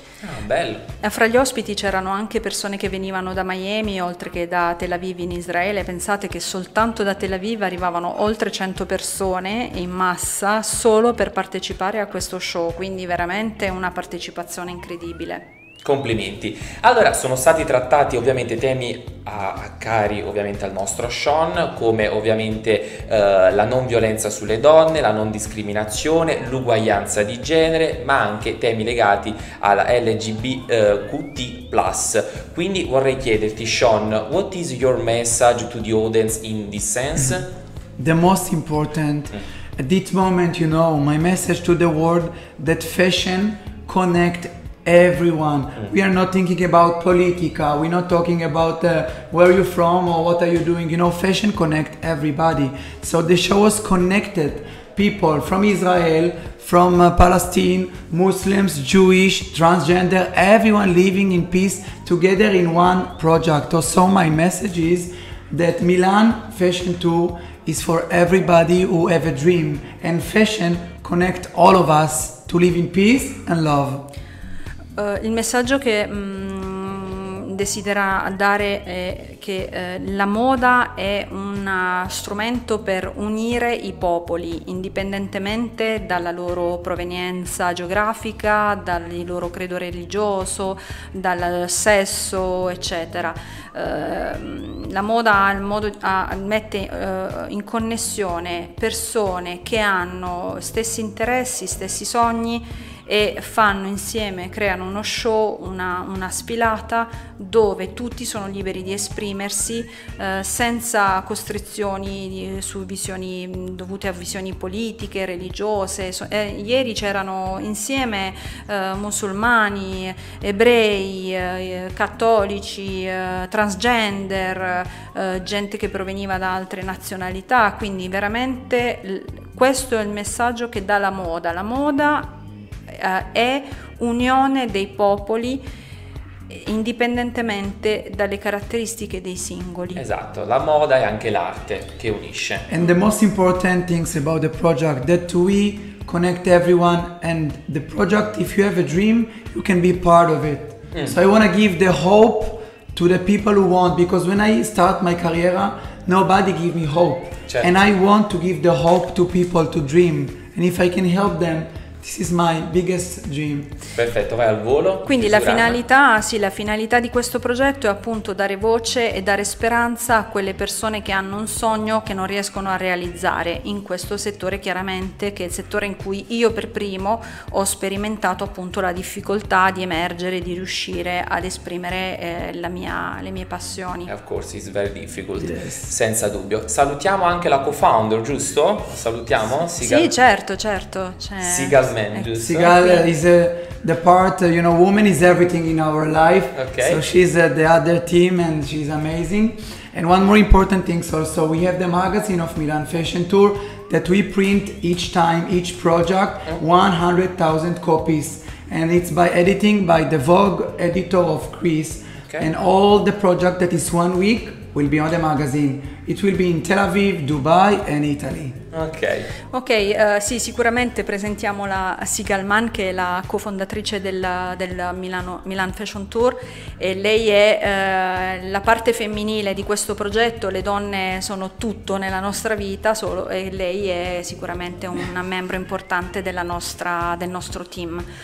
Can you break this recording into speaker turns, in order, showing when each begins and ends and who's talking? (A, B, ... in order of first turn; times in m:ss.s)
0:00.2-0:00.8 A
0:01.0-0:15.4 B
0:15.8-0:37.5 A
0:38.0-1:14.1 C
1:15.0-2:12.3 B
2:12.9-2:15.6 B
2:16.5-2:20.0 B
2:19.9-2:22.6 A
2:22.7-2:43.8 C
2:37.5-2:37.7 A
2:43.9-2:45.8 A
2:45.0-3:04.1 B
3:04.1-3:10.1 A
3:05.4-3:05.9 C
3:09.8-3:13.1 B
3:11.4-3:12.8 A
3:12.3-3:38.6 C
3:16.5-3:17.0 A
3:38.7-3:39.3 A
3:39.5-3:58.0 B